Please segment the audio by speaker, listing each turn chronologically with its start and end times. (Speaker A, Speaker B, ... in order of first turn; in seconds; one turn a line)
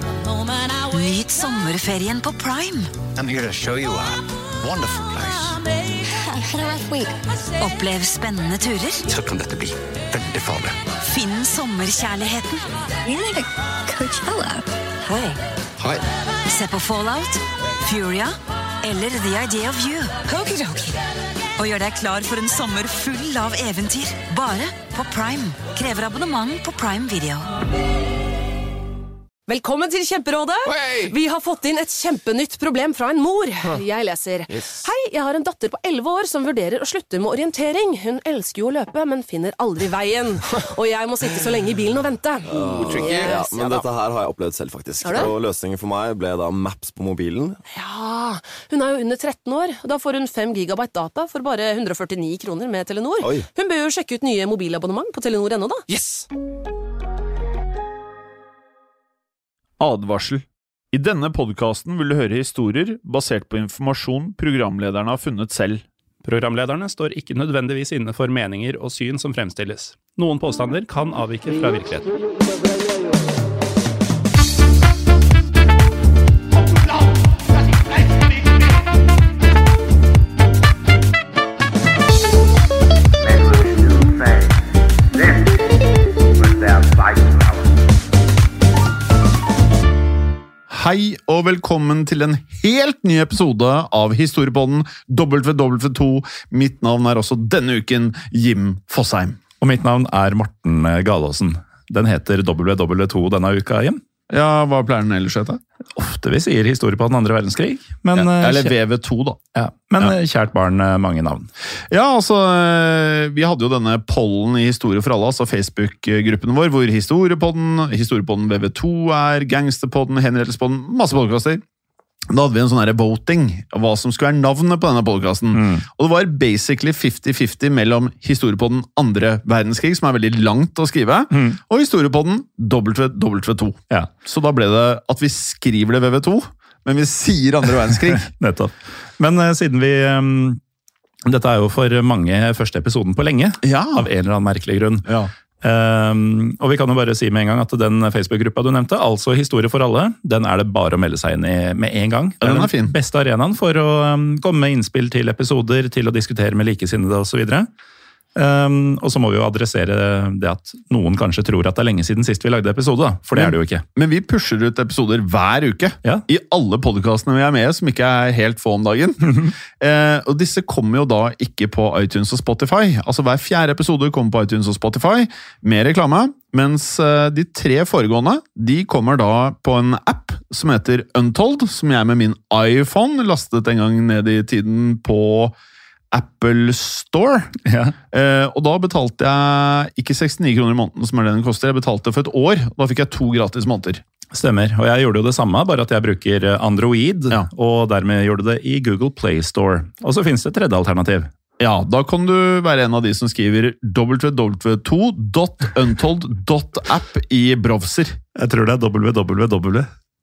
Speaker A: 0.8-2.9
Speaker B: 3.1-5.6
Speaker C: 6.3-7.1
Speaker A: 7.6-9.0
Speaker B: 9.1-10.8
Speaker A: 11.0-12.8
Speaker C: 13.0-14.6
Speaker A: 15.0-15.4
Speaker A: 16.5-21.0
Speaker A: 21.6-27.5
Speaker D: 29.5-43.8
Speaker E: 42.5-47.6
Speaker B: 42.6-43.4
Speaker D: 45.0-45.3
Speaker D: 47.7-55.8
Speaker F: 59.8-65.8
Speaker G: 66.2-72.1
Speaker F: 90.7-99.4
Speaker G: 99.6-104.0
Speaker F: 104.3-105.6
Speaker G: 105.9-108.7
Speaker F: 108.1-109.4
Speaker G: 109.5-111.5
Speaker F: 111.9-121.6
Speaker F: 122.3-138.3
Speaker G: 125.5-125.8
Speaker G: 131.3-131.6
Speaker G: 138.1-140.6
Speaker G: 141.2-145.0
Speaker F: 143.6-144.1
Speaker F: 145.1-145.3
Speaker G: 145.6-157.7
Speaker F: 152.4-152.9
Speaker G: 158.3-163.8
Speaker F: 163.3-185.5
Speaker G: 169.3-169.5
Speaker F: 186.1-187.5
Speaker G: 187.6-187.9
Speaker F: 188.1-194.0
Speaker G: 194.3-201.3
Speaker F: 201.6-208.2
Speaker G: 208.3-209.9